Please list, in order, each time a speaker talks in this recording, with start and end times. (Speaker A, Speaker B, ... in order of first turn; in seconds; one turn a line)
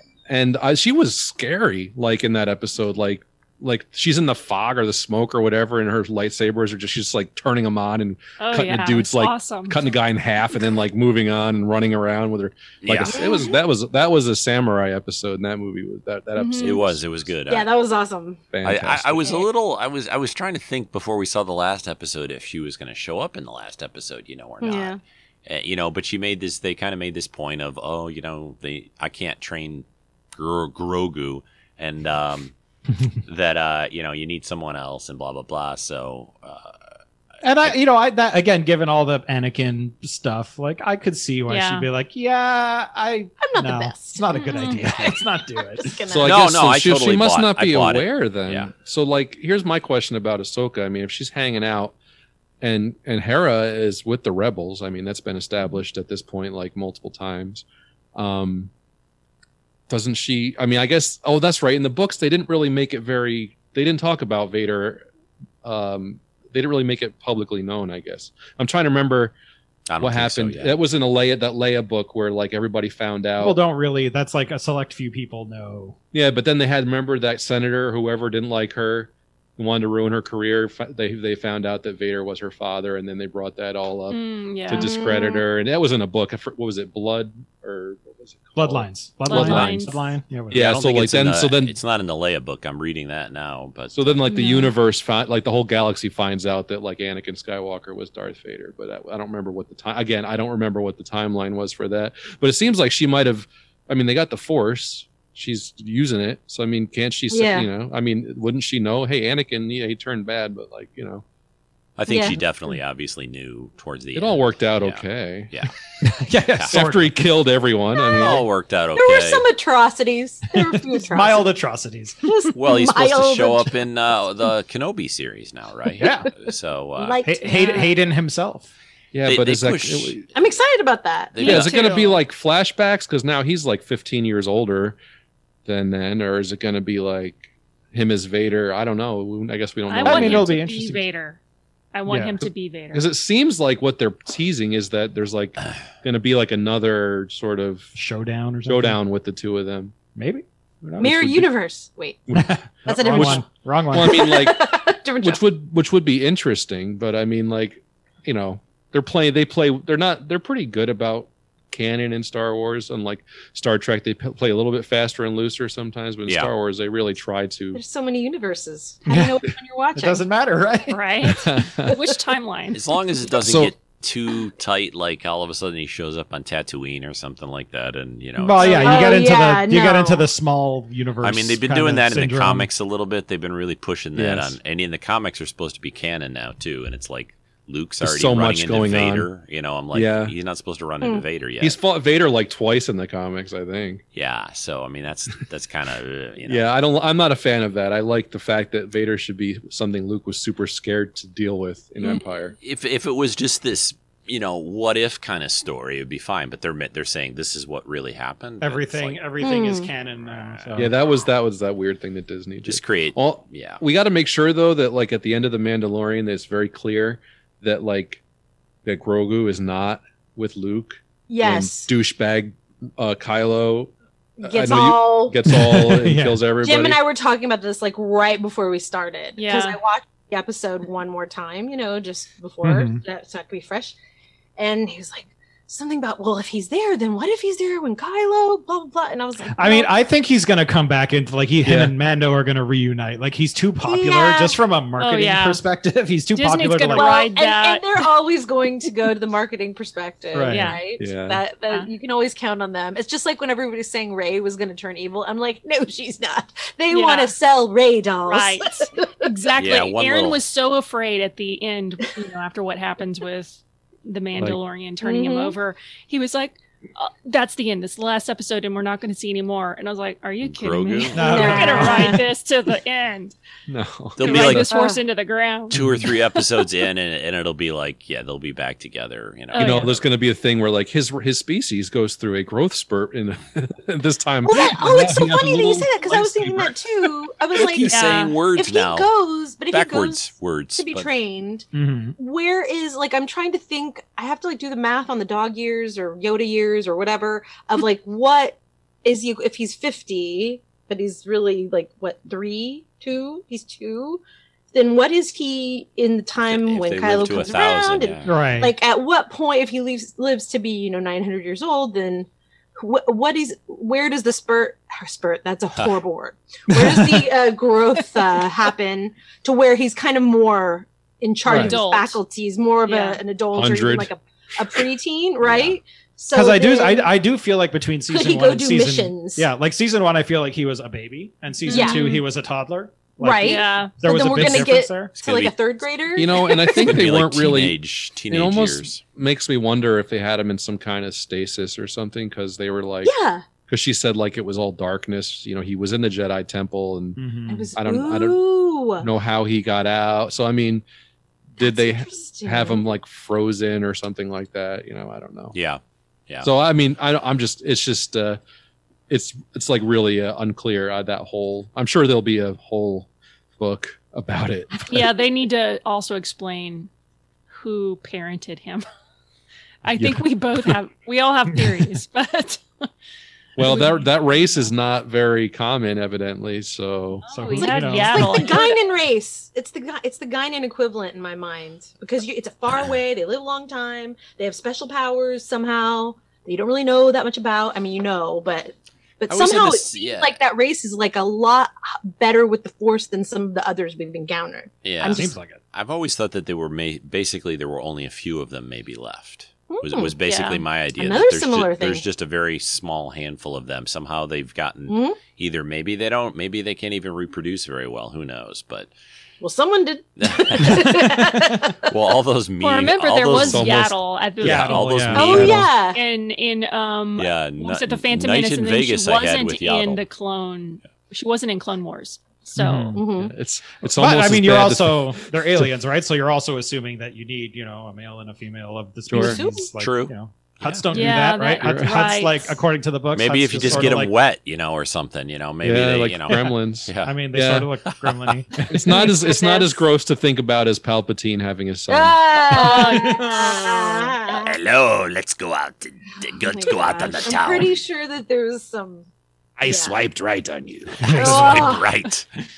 Speaker A: 0.3-17.0
Speaker B: 8.4-9.8
Speaker C: 12.8-13.2
Speaker D: 13.1-13.6
Speaker B: 16.4-16.7
Speaker C: 16.6-17.7
Speaker D: 17.5-18.4
Speaker A: 18.5-19.4
Speaker C: 18.6-32.5
Speaker D: 24.6-25.0
Speaker C: 33.2-36.8
Speaker E: 37.4-46.0
Speaker B: 41.5-41.9
Speaker D: 43.4-46.4
Speaker B: 44.3-44.8
Speaker A: 46.1-51.9
Speaker C: 46.2-48.7
Speaker A: 52.6-58.7
Speaker A: 59.9-65.0
Speaker A: 65.6-69.3
Speaker C: 69.9-70.8
Speaker A: 70.0-73.6
Speaker E: 73.4-76.0
Speaker A: 76.1-89.9
Speaker B: 84.1-84.9
Speaker D: 84.7-85.4
Speaker E: 88.5-91.0
Speaker B: 89.2-90.0
Speaker A: 90.5-91.8
Speaker C: 90.5-94.2
Speaker A: 93.9-111.2
Speaker B: 94.3-94.7
Speaker D: 107.3-107.7
Speaker C: 112.0-115.7
Speaker D: 112.1-112.4
Speaker A: 114.1-115.5
Speaker E: 116.0-117.1
Speaker C: 116.5-116.8
Speaker A: 116.7-118.5
Speaker C: 118.2-119.5
Speaker D: 118.9-121.5
Speaker E: 120.5-122.2
Speaker D: 122.2-123.7
Speaker C: 122.5-127.2
Speaker E: 126.0-126.3
Speaker D: 127.0-127.9
Speaker E: 127.2-128.7
Speaker B: 127.6-127.9
Speaker A: 129.1-130.2
Speaker C: 129.2-130.2
Speaker D: 130.3-132.1
Speaker C: 131.3-131.8
Speaker A: 131.4-135.0
Speaker B: 131.5-131.7
Speaker A: 135.6-140.6
Speaker B: 139.9-141.4
Speaker E: 140.0-141.0
Speaker B: 141.9-143.1
Speaker E: 142.1-142.4
Speaker A: 142.9-147.9
Speaker E: 147.9-149.0
Speaker A: 148.6-149.9
Speaker E: 150.1-151.4
Speaker D: 151.0-152.2
Speaker A: 152.3-154.6
Speaker E: 152.3-154.3
Speaker D: 152.8-155.4
Speaker A: 155.2-167.8
Speaker C: 166.2-166.5
Speaker D: 167.7-170.2
Speaker E: 169.1-169.4
Speaker E: 169.9-171.0
Speaker B: 170.9-172.8
Speaker A: 171.2-172.0
Speaker C: 172.7-179.0
Speaker A: 173.4-173.7
Speaker E: 178.4-182.7
Speaker B: 178.6-179.2
Speaker D: 178.8-180.2
Speaker C: 181.2-191.8
Speaker A: 184.2-184.6
Speaker A: 188.0-189.3
Speaker A: 189.9-190.3
Speaker A: 191.6-194.0
Speaker C: 194.1-196.6
Speaker A: 196.4-202.5
Speaker C: 202.6-209.2
Speaker E: 208.6-210.9
Speaker D: 209.4-209.9
Speaker C: 210.2-210.9
Speaker A: 210.8-218.2
Speaker C: 212.6-213.8
Speaker A: 218.8-227.0
Speaker D: 221.3-221.9
Speaker D: 224.4-225.4
Speaker E: 225.5-226.4
Speaker D: 226.6-233.9
Speaker B: 229.4-229.8
Speaker E: 232.6-233.0
Speaker D: 234.6-239.9
Speaker E: 239.5-247.1
Speaker A: 241.6-241.9
Speaker D: 243.8-244.6
Speaker B: 245.0-245.6
Speaker B: 246.3-247.8
Speaker D: 246.9-259.1
Speaker E: 250.3-250.8
Speaker B: 250.5-250.8
Speaker A: 251.0-251.4
Speaker B: 256.9-257.3
Speaker B: 258.3-273.3
Speaker C: 259.6-260.4
Speaker D: 265.0-265.5
Speaker C: 270.4-271.7
Speaker E: 271.1-272.2
Speaker D: 271.2-272.2
Speaker A: 273.7-274.7
Speaker C: 274.2-274.7
Speaker B: 274.2-275.8
Speaker D: 274.7-275.0
Speaker C: 275.7-280.0
Speaker A: 275.7-276.1
Speaker B: 279.5-279.9
Speaker A: 279.6-287.1
Speaker D: 284.4-304.2
Speaker C: 287.6-289.1
Speaker B: 287.9-288.3
Speaker C: 289.7-291.1
Speaker E: 291.7-292.2
Speaker D: 304.7-327.1
Speaker C: 306.5-308.4
Speaker E: 308.2-308.7
Speaker E: 316.7-317.3
Speaker E: 321.4-321.7
Speaker B: 321.5-322.2
Speaker B: 322.9-323.2
Speaker A: 323.5-324.1
Speaker C: 325.4-325.8
Speaker E: 326.3-335.1
Speaker D: 328.1-329.4
Speaker B: 331.6-332.2
Speaker D: 331.7-332.0
Speaker D: 333.2-337.0
Speaker B: 333.4-333.9
Speaker C: 335.2-335.5
Speaker A: 336.1-343.1
Speaker C: 336.8-339.0
Speaker D: 343.0-343.4
Speaker A: 343.7-347.2
Speaker E: 347.2-347.7
Speaker D: 347.5-349.1
Speaker A: 347.8-348.4
Speaker A: 349.0-350.8
Speaker A: 351.6-355.5
Speaker D: 351.6-352.8
Speaker C: 355.5-356.5
Speaker A: 356.4-358.4
Speaker A: 359.1-365.1
Speaker B: 364.9-366.9
Speaker B: 367.5-368.8
Speaker B: 369.8-372.8
Speaker A: 369.9-370.8
Speaker A: 373.6-377.3
Speaker B: 377.3-378.8
Speaker E: 377.3-378.5
Speaker D: 378.0-395.3
Speaker C: 389.3-390.4
Speaker C: 394.8-408.9
Speaker E: 395.1-395.6
Speaker D: 399.7-400.1
Speaker B: 400.2-400.6
Speaker D: 401.0-402.0
Speaker D: 404.9-405.2
Speaker D: 409.4-411.9
Speaker C: 410.2-411.0
Speaker E: 410.6-411.7
Speaker C: 411.9-413.9
Speaker B: 412.6-415.1
Speaker A: 413.3-414.5
Speaker E: 414.4-415.6
Speaker C: 414.4-415.7
Speaker D: 415.1-416.0
Speaker A: 415.1-415.7
Speaker B: 415.8-423.0
Speaker C: 417.2-420.0
Speaker E: 422.5-423.0
Speaker D: 422.9-423.3
Speaker A: 423.1-425.7
Speaker E: 423.9-434.1
Speaker A: 429.1-429.4
Speaker D: 429.1-429.7
Speaker C: 429.8-430.9
Speaker B: 430.9-432.6
Speaker A: 431.6-431.9
Speaker C: 433.1-437.2
Speaker A: 433.6-433.9
Speaker A: 435.6-437.7
Speaker E: 436.3-439.0
Speaker C: 437.9-438.3
Speaker A: 438.7-442.2
Speaker D: 438.9-439.8
Speaker D: 441.9-444.5
Speaker B: 442.5-443.3
Speaker E: 442.5-443.4
Speaker C: 443.8-447.7
Speaker D: 446.5-449.1
Speaker A: 449.6-451.2
Speaker D: 449.6-449.9
Speaker E: 451.0-451.7
Speaker C: 451.1-452.3
Speaker D: 451.2-451.9